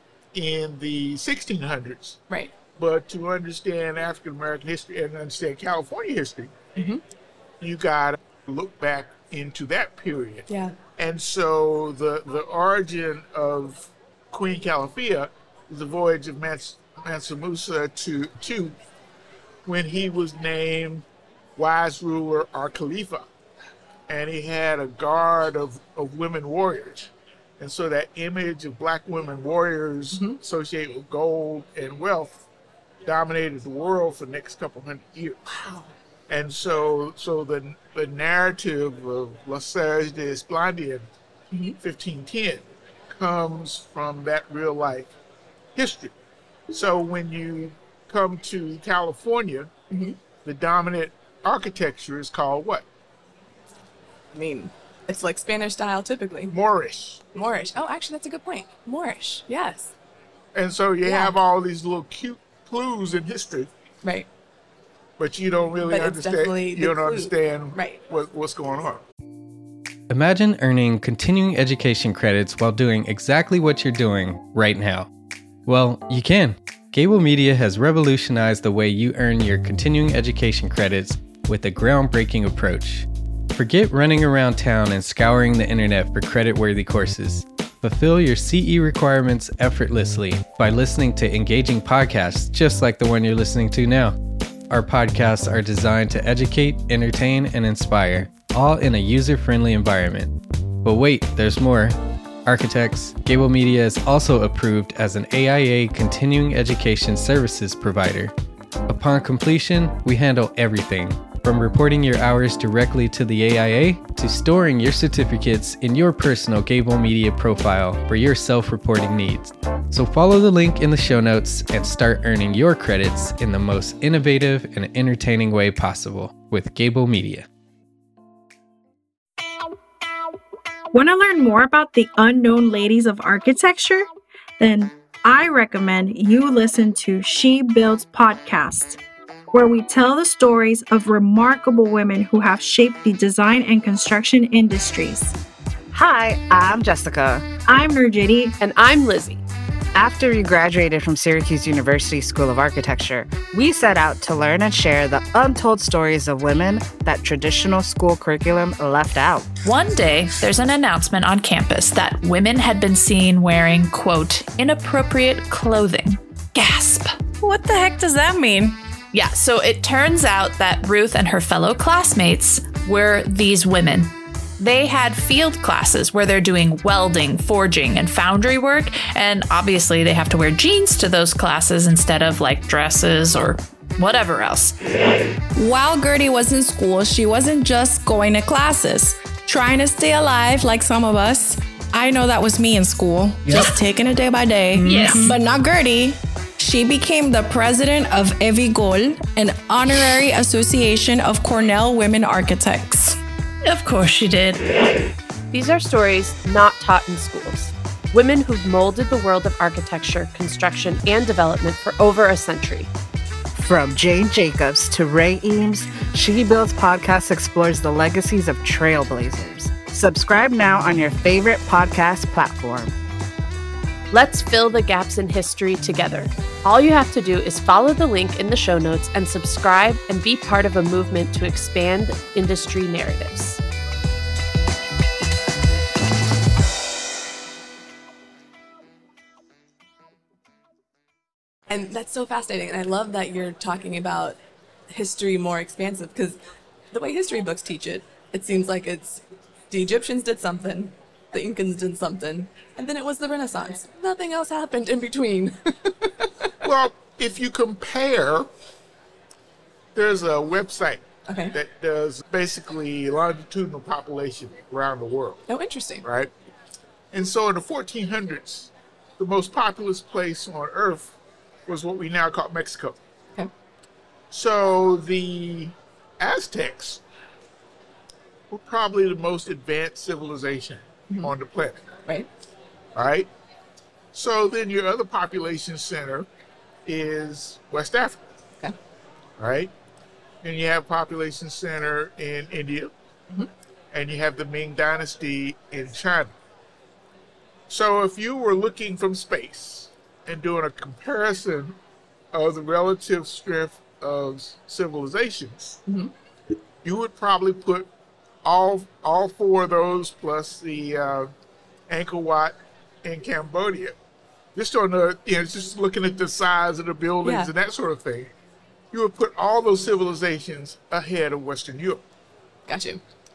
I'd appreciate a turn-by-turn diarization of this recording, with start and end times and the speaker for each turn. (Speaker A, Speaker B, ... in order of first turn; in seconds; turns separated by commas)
Speaker A: 0.3-2.2, Speaker A: 2.8-6.5, Speaker B: 6.8-7.0, Speaker A: 7.6-18.8, Speaker B: 10.5-10.8, Speaker A: 19.6-23.3, Speaker A: 24.1-32.5, Speaker A: 33.0-35.4, Speaker B: 35.5-35.9, Speaker A: 36.3-41.1, Speaker B: 41.5-41.8, Speaker A: 41.8-45.1, Speaker A: 45.8-46.1, Speaker A: 46.7-49.7, Speaker B: 49.9-50.2, Speaker A: 50.4-52.9, Speaker B: 54.3-56.5, Speaker A: 56.5-57.2, Speaker B: 57.3-59.9, Speaker A: 60.5-63.7, Speaker B: 61.0-61.3, Speaker B: 64.0-64.3, Speaker A: 65.2-69.0, Speaker B: 65.8-68.0, Speaker C: 70.1-75.1, Speaker C: 75.7-94.2, Speaker C: 94.7-108.3, Speaker C: 108.9-127.5, Speaker D: 130.9-134.1, Speaker D: 134.6-139.0, Speaker D: 139.5-145.4, Speaker E: 145.9-147.5, Speaker D: 147.7-148.6, Speaker F: 148.6-149.4, Speaker E: 149.9-159.5, Speaker G: 159.6-167.2, Speaker H: 167.4-168.8, Speaker G: 169.1-184.7, Speaker H: 185.6-203.2, Speaker G: 194.8-195.4, Speaker G: 203.6-204.7, Speaker F: 205.5-212.9, Speaker E: 213.6-222.9, Speaker F: 224.1-233.6, Speaker B: 241.7-244.4, Speaker B: 244.9-246.4, Speaker B: 246.9-256.5, Speaker A: 256.6-258.5, Speaker A: 259.9-265.4, Speaker B: 261.3-261.5, Speaker B: 265.5-266.1, Speaker A: 266.0-266.3, Speaker A: 267.1-273.0, Speaker A: 274.3-277.0, Speaker A: 278.5-281.9, Speaker A: 282.9-283.3, Speaker A: 284.1-286.3, Speaker A: 286.9-288.2, Speaker A: 289.4-289.7, Speaker A: 290.4-292.9, Speaker A: 293.9-296.4, Speaker A: 297.7-301.8, Speaker A: 302.3-305.8, Speaker A: 306.8-307.9, Speaker A: 308.4-311.3, Speaker A: 311.9-314.0, Speaker A: 314.6-318.3, Speaker B: 317.2-317.5, Speaker A: 318.9-322.0, Speaker B: 322.7-323.0